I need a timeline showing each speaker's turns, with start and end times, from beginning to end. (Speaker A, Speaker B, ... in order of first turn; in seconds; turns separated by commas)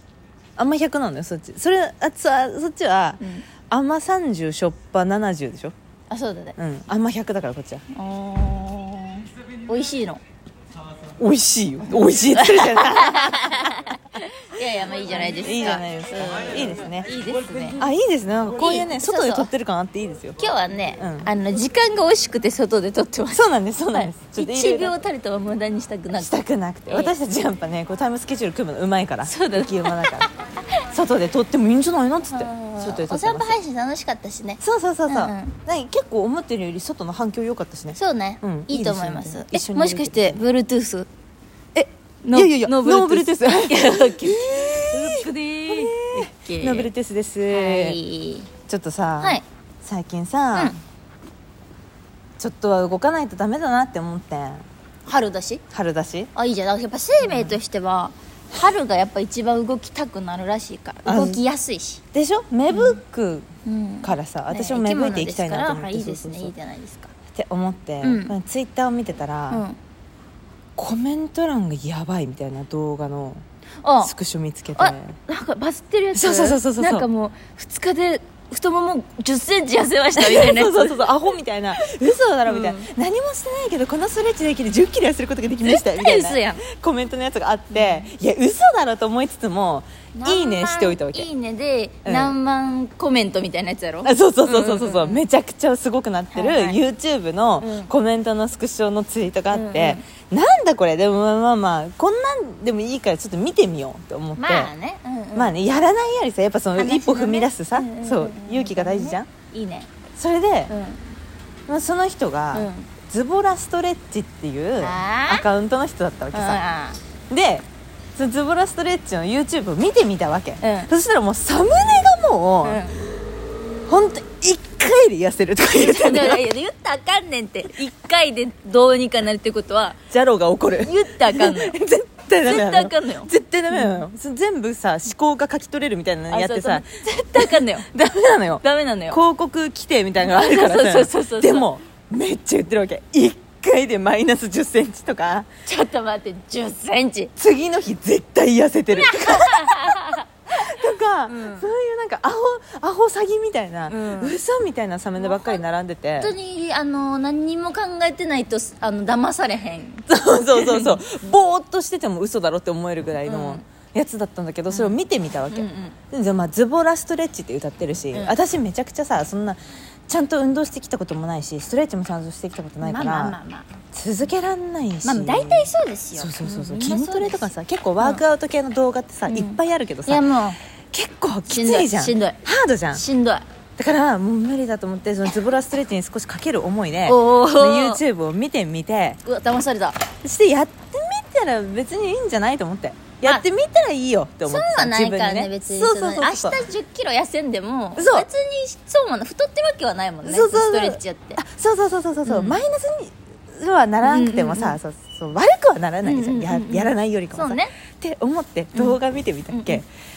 Speaker A: 0.6-5.7, Speaker B: 3.2-3.5, Speaker B: 6.1-6.6, Speaker A: 6.6-7.8, Speaker B: 7.9-10.2, Speaker A: 11.2-13.9, Speaker B: 12.3-17.9, Speaker A: 15.3-17.1, Speaker A: 17.8-20.4, Speaker B: 18.5-19.5, Speaker B: 20.4-27.1, Speaker A: 21.0-21.3, Speaker A: 23.3-25.0, Speaker A: 26.2-30.3, Speaker B: 29.3-30.3, Speaker A: 30.9-33.6, Speaker B: 32.3-35.6, Speaker A: 34.6-40.4, Speaker B: 38.0-41.1, Speaker A: 41.8-48.0, Speaker B: 42.2-46.9, Speaker B: 47.5-48.5, Speaker A: 48.6-50.8, Speaker A: 52.4-54.6, Speaker B: 55.1-55.6, Speaker A: 55.7-56.3, Speaker B: 56.4-62.0, Speaker A: 57.2-57.6, Speaker A: 61.0-61.4, Speaker A: 62.1-63.5, Speaker B: 62.7-63.0, Speaker B: 63.6-67.1, Speaker A: 64.0-66.5, Speaker A: 67.3-69.6, Speaker B: 68.0-68.3, Speaker B: 69.5-69.8, Speaker A: 70.8-73.4, Speaker B: 73.8-74.1, Speaker A: 74.0-75.2, Speaker B: 74.8-81.1, Speaker A: 76.1-77.1, Speaker A: 80.2-91.3, Speaker B: 82.5-82.9, Speaker B: 85.6-86.7, Speaker B: 87.7-88.1, Speaker B: 90.2-95.2, Speaker A: 92.0-92.3, Speaker A: 94.0-104.7, Speaker B: 96.3-96.8, Speaker B: 97.6-97.9, Speaker B: 99.5-100.0, Speaker B: 104.4-105.5, Speaker A: 105.3-109.3, Speaker B: 106.8-109.9, Speaker A: 110.2-110.7, Speaker B: 110.7-111.1, Speaker A: 111.7-116.6, Speaker B: 112.5-112.9, Speaker B: 114.8-115.5, Speaker B: 116.3-117.0, Speaker A: 117.3-117.7, Speaker A: 118.2-122.8, Speaker B: 120.6-120.9, Speaker B: 122.6-123.0, Speaker A: 123.9-126.4, Speaker B: 125.7-130.0, Speaker A: 130.1-145.5, Speaker B: 130.7-131.8, Speaker B: 132.4-134.0, Speaker B: 136.3-137.9, Speaker B: 138.6-139.2, Speaker B: 140.2-141.7, Speaker B: 145.7-147.3, Speaker A: 147.4-156.3, Speaker B: 148.9-150.2, Speaker B: 151.3-151.7, Speaker B: 153.9-154.4, Speaker B: 155.2-155.6, Speaker B: 156.2-161.1, Speaker A: 160.1-173.4, Speaker B: 163.2-163.7, Speaker B: 164.7-165.0, Speaker B: 165.5-166.0, Speaker B: 172.8-173.7, Speaker A: 173.9-180.3, Speaker B: 175.0-178.2, Speaker B: 179.3-180.6, Speaker A: 180.9-183.0, Speaker B: 181.5-182.4, Speaker B: 182.9-183.5, Speaker A: 183.8-189.2, Speaker B: 187.1-188.0, Speaker B: 189.2-190.0, Speaker A: 190.2-196.6, Speaker B: 194.5-201.4, Speaker A: 198.0-198.3, Speaker A: 200.2-209.9, Speaker B: 202.2-202.6, Speaker B: 204.0-204.8, Speaker B: 206.0-207.7, Speaker B: 209.5-209.8